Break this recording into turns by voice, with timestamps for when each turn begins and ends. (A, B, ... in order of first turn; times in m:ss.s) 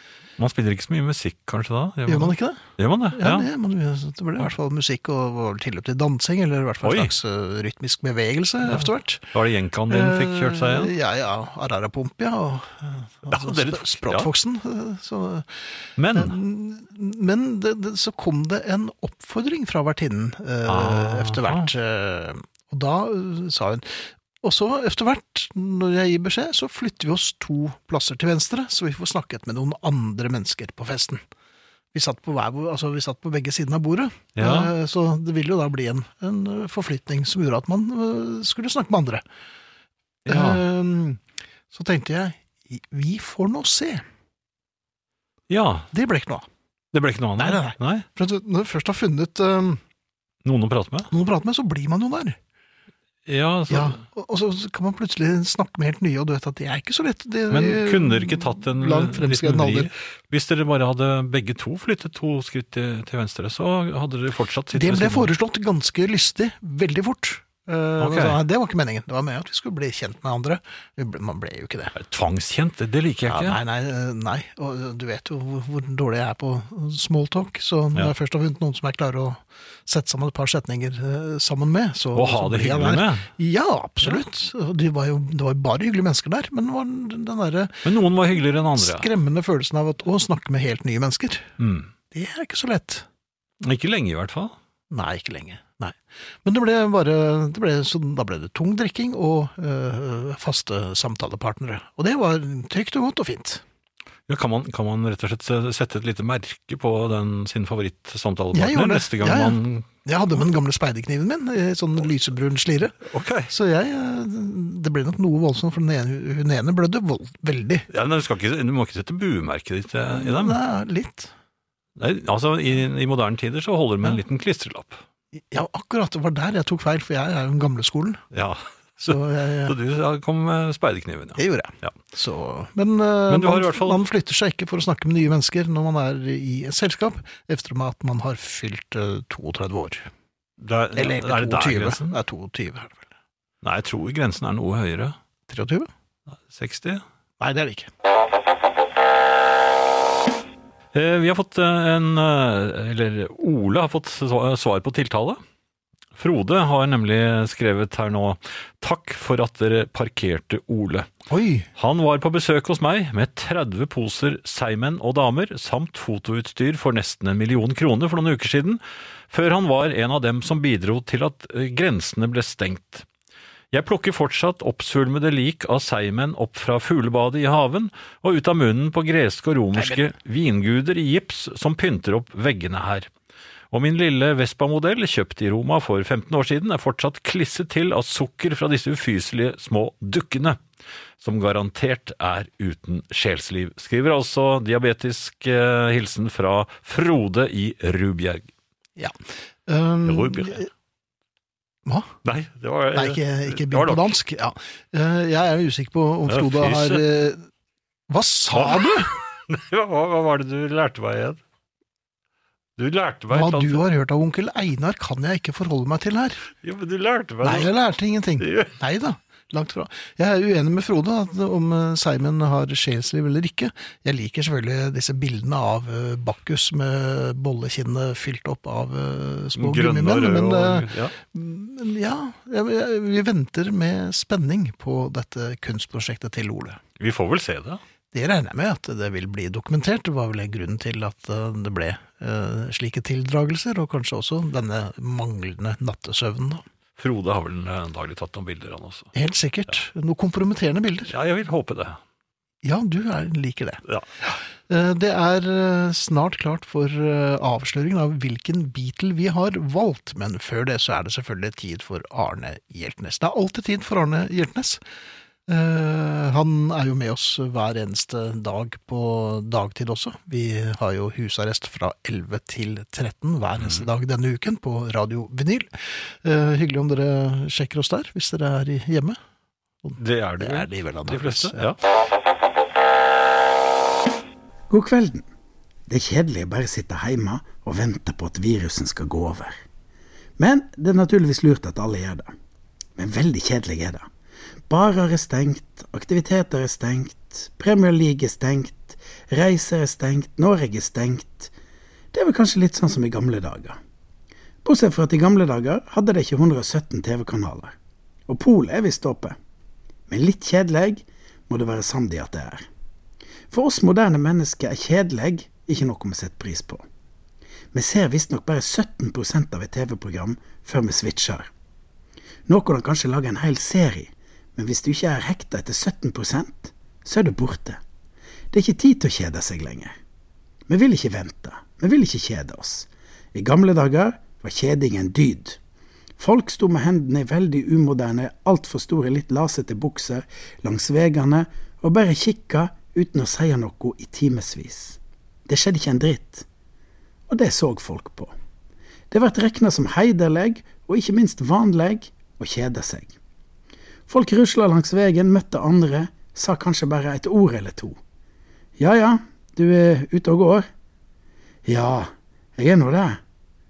0:00.4-0:03.5 A
0:02.1-0:09.3 B
0:06.8-0:07.1 A
0:08.6-0:10.9 A
0:09.9-0:31.2 B
0:13.3-0:14.3 A
0:16.0-0:16.4 A
0:20.7-0:21.7 A
0:31.9-0:39.2 B
0:34.4-0:34.7 A
0:40.3-0:40.6 A
0:40.3-0:41.2 B
0:41.7-0:44.0 B
0:45.5-0:45.9 A
0:45.9-0:46.5 B
0:46.9-0:48.1 A
0:47.4-0:49.8 B
0:50.4-0:51.1 A
0:51.1-0:52.4 B
0:53.3-0:54.0 A
0:53.7-0:59.9 B
0:57.5-1:05.3 A
1:04.7-1:12.0 B
1:08.0-1:08.4 A
1:12.0-1:13.6 A
1:13.2-1:27.9 B
1:22.1-1:23.3 A
1:27.8-1:29.1 A
1:28.8-1:31.5 B
1:31.6-1:31.9 A
1:32.1-1:33.1 B
1:33.6-1:34.6 A
1:34.9-1:43.6 B
1:44.3-1:49.9 A
1:48.5-1:57.9 B
1:53.1-1:53.5 A
1:57.9-2:00.6 A
2:00.1-2:01.3 B
2:02.0-2:05.0 A
2:05.4-2:08.2 B
2:08.3-2:11.9 A
2:09.0-2:09.8 B
2:11.4-2:20.1 B
2:13.3-2:14.0 A
2:20.6-2:22.2 A
2:20.9-2:23.1 B
2:23.6-2:25.2 A
2:25.5-2:25.9 B
2:26.5-2:27.0 A
2:27.4-2:27.9 B
2:30.9-2:35.4 A
2:36.2-2:41.1 A
2:41.3-2:41.7 B
2:41.8-2:53.1 A
2:53.7-3:03.1 A
3:03.7-3:10.6 A
3:11.2-3:18.5 A
3:19.0-3:20.7 B
3:20.1-3:20.6 A
3:21.8-3:22.1 B
3:22.2-3:24.1 A
3:22.9-3:27.4 B
3:26.3-3:27.0 A
3:28.1-3:29.2 B
3:28.5-3:31.4 A
3:32.8-3:33.8 A
3:33.3-3:36.4 B
3:36.6-3:37.7 A
3:37.4-3:56.8 B
3:38.4-3:38.7 A
3:49.6-3:51.2 A
3:57.0-3:57.8 A
3:58.1-4:06.6 B
4:07.0-4:09.1 A
4:09.2-4:11.1 B
4:11.1-4:12.0 A
4:12.6-4:24.8 B
4:25.5-4:39.2 B
4:39.8-4:41.7 B
4:40.0-4:41.8 A
4:44.7-4:45.3 C
4:45.9-4:49.6 C
4:50.4-4:52.3 C
4:53.0-4:54.1 C
4:54.7-5:01.5 C
5:02.1-5:03.8 C
5:04.6-5:07.7 C
5:08.3-5:09.4 C
5:10.1-5:12.7 C
5:13.5-5:16.8 C
5:17.7-5:21.5 C
5:22.5-5:27.8 C
5:28.5-5:29.9 C
5:30.7-5:35.6 C
5:36.2-5:46.4 C
5:47.3-5:48.3 C
5:49.1-5:53.1 C
5:54.1-5:58.0 C
5:58.8-6:00.7 C
6:01.7-6:03.2 C